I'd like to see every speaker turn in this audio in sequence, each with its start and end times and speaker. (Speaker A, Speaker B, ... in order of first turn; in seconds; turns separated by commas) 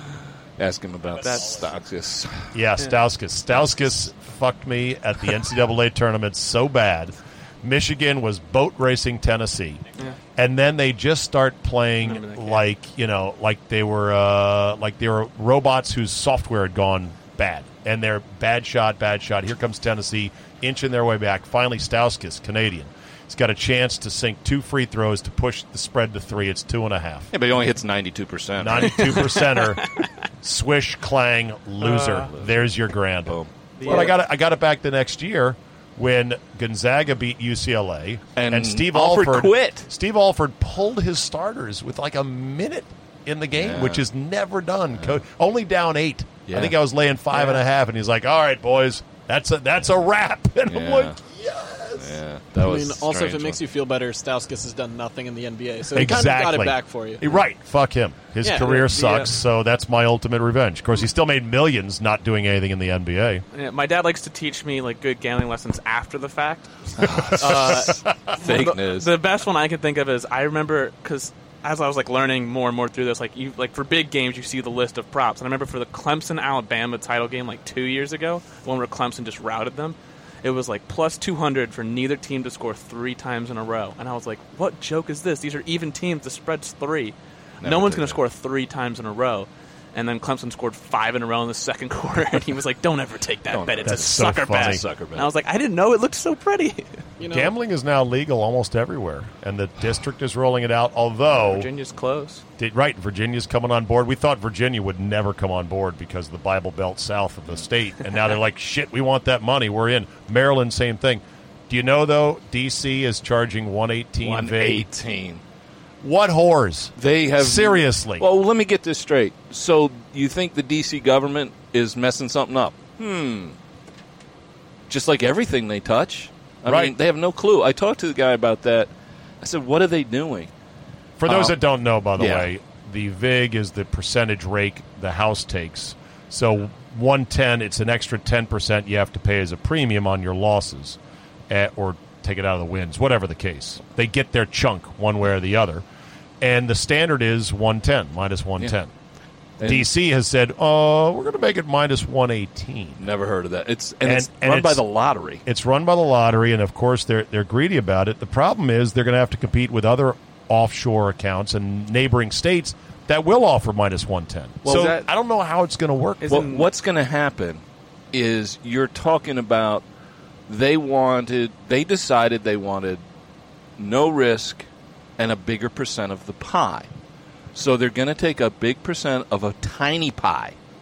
Speaker A: 0.6-2.5, Speaker B: 1.2-1.6, Speaker C: 2.5-27.3, Speaker A: 3.5-3.8, Speaker B: 12.0-12.6, Speaker A: 27.3-29.2, Speaker C: 28.6-52.2, Speaker B: 29.0-30.1, Speaker B: 31.8-32.3, Speaker B: 33.8-34.1, Speaker A: 38.4-39.9, Speaker A: 43.6-44.0, Speaker A: 46.5-46.7, Speaker A: 50.7-51.2, Speaker A: 52.0-53.6, Speaker D: 52.6-57.4, Speaker C: 55.9-63.4, Speaker D: 58.4-59.2, Speaker B: 63.5-97.0, Speaker C: 67.0-68.1, Speaker A: 67.0-69.1, Speaker A: 87.6-88.2, Speaker A: 93.5-95.3, Speaker C: 93.8-94.8, Speaker D: 97.2-97.5, Speaker C: 97.3-101.7, Speaker B: 101.3-102.4, Speaker C: 102.6-114.9, Speaker A: 114.2-115.4, Speaker C: 116.0-118.2, Speaker A: 117.0-123.6, Speaker A: 124.9-130.5, Speaker C: 126.6-126.9, Speaker C: 131.2-141.0, Speaker A: 131.2-131.5, Speaker A: 132.2-132.5, Speaker C: 141.5-145.8, Speaker C: 146.4-148.9, Speaker A: 149.6-149.9, Speaker C: 149.6-153.0, Speaker A: 153.0-155.4, Speaker C: 154.0-154.8, Speaker C: 155.4-166.5, Speaker A: 164.7-165.0, Speaker B: 164.7-165.1, Speaker B: 166.2-166.7, Speaker A: 166.3-169.8, Speaker A: 170.5-173.0, Speaker A: 173.8-174.7, Speaker A: 175.2-176.9, Speaker A: 177.5-180.6